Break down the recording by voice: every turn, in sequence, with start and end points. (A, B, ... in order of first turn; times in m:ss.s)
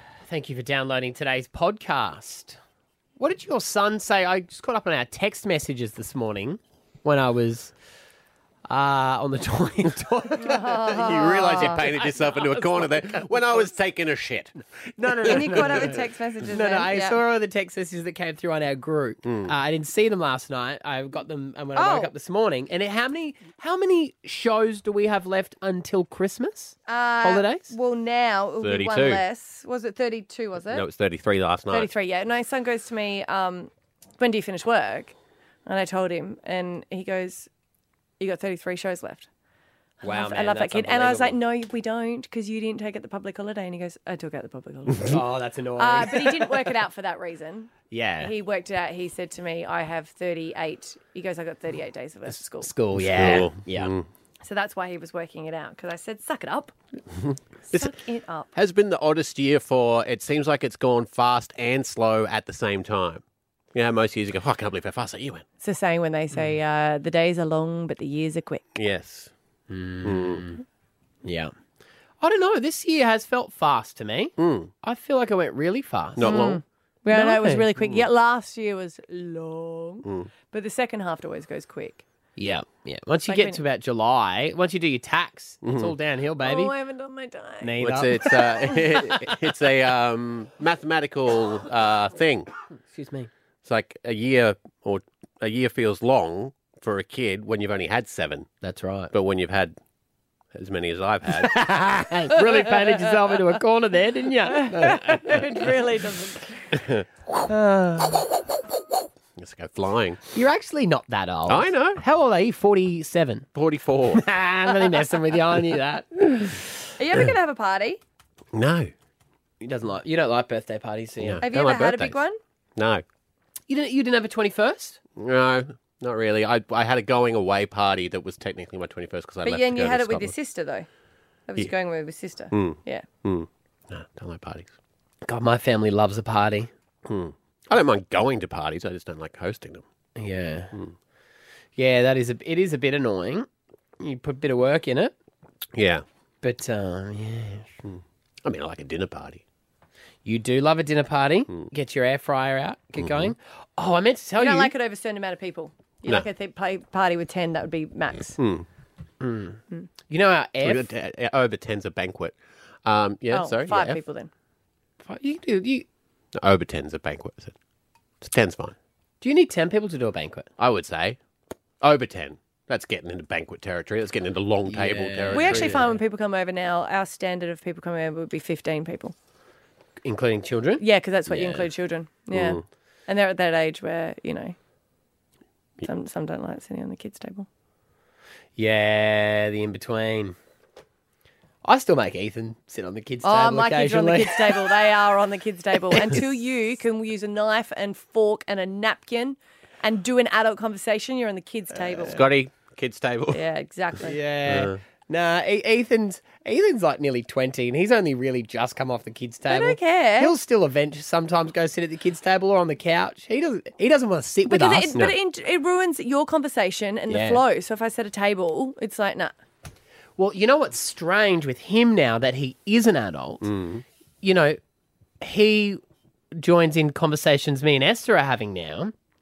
0:00.3-0:02.6 A
0:03.2-0:07.7 A
0:08.7-0:13.7 A
0:10.4-0:11.8 B
0:10.5-0:15.9 C
0:15.0-0:27.7 A
0:15.3-0:17.2 B
0:19.2-0:19.5 C
0:21.8-0:22.1 B
0:26.9-0:30.8 B
0:28.6-0:29.2 C
0:30.7-0:31.9 C
0:31.7-0:35.1 B
0:35.6-0:37.5 B
0:38.2-0:39.3 B
0:40.0-0:45.2 B
0:40.0-0:41.4 A
0:45.1-0:46.8 A
0:45.8-0:52.7 B
0:47.9-0:48.3 A
0:52.3-0:53.9 A
0:53.0-0:54.0 C
0:54.4-0:56.7 B
0:57.7-0:58.5 B
0:58.5-1:03.2 C
1:03.7-1:05.4 C
1:05.6-1:08.7 B
1:08.8-1:09.3 C
1:09.7-1:10.6 A
1:10.0-1:10.4 C
1:11.2-1:11.5 A
1:12.2-1:16.6 A
1:14.4-1:14.7 C
1:16.2-1:16.6 C
1:16.2-1:22.0 B
1:17.1-1:17.7 A
1:20.0-1:20.3 C
1:22.4-1:26.7 A
1:23.3-1:23.6 B
1:25.6-1:25.9 C
1:26.4-1:27.7 B
1:27.6-1:28.3 A
1:27.8-1:32.5 C
1:28.2-1:28.8 B
1:32.9-1:33.3 A
1:33.6-1:38.5 C
1:38.6-1:39.1 A
1:39.1-1:39.8 C
1:40.5-1:41.6 C
1:41.4-1:45.4 A
1:44.5-1:46.5 B
1:46.7-1:47.0 C
1:47.4-1:48.3 A
1:49.4-1:50.2 C
1:50.3-1:53.5 A
1:51.5-1:52.0 C
1:53.5-1:54.2 C
1:54.1-1:56.6 A
1:57.0-1:58.0 B
1:58.5-1:58.9 C
1:59.6-2:01.5 A
2:01.2-2:02.2 C
2:01.4-2:02.4 B
2:02.8-2:03.0 C
2:03.7-2:05.0 A
2:05.1-2:10.3 C
2:09.4-2:10.9 B
2:11.5-2:13.0 B
2:12.5-2:14.7 C
2:15.2-2:16.7 A
2:17.0-2:19.8 C
2:20.2-2:20.7 A
2:21.8-2:23.5 A
2:24.0-2:25.1 A
2:25.7-2:26.0 C
2:26.4-2:27.7 A
2:27.8-2:29.4 C
2:30.2-2:34.7 A
2:33.0-2:33.3 C
2:34.4-2:38.4 B
2:38.4-2:38.6 C
2:39.2-2:40.9 A
2:40.6-2:44.0 C
2:43.3-2:44.3 B
2:45.0-2:45.8 A
2:46.4-2:47.5 C
2:48.2-2:48.7 C
2:49.2-2:50.5 A
2:50.6-2:51.2 C
2:51.8-2:55.8 C
2:54.7-2:56.0 A
2:55.3-2:59.1 B
3:00.0-3:01.7 A
3:00.8-3:04.6 B
3:02.3-3:02.6 C
3:05.8-3:07.5 B
3:08.6-3:10.4 A
3:11.6-3:14.6 A
3:13.2-3:22.2 B
3:22.0-3:23.4 C
3:23.3-3:24.1 B
3:24.0-3:35.0 A
3:24.4-3:24.8 C
3:29.5-3:30.3 B
3:34.4-3:39.3 B
3:37.1-3:37.4 A
3:40.2-3:43.4 A
3:43.4-3:43.8 C
3:44.2-3:44.6 A
3:45.2-3:45.8 A
3:46.4-3:48.9 A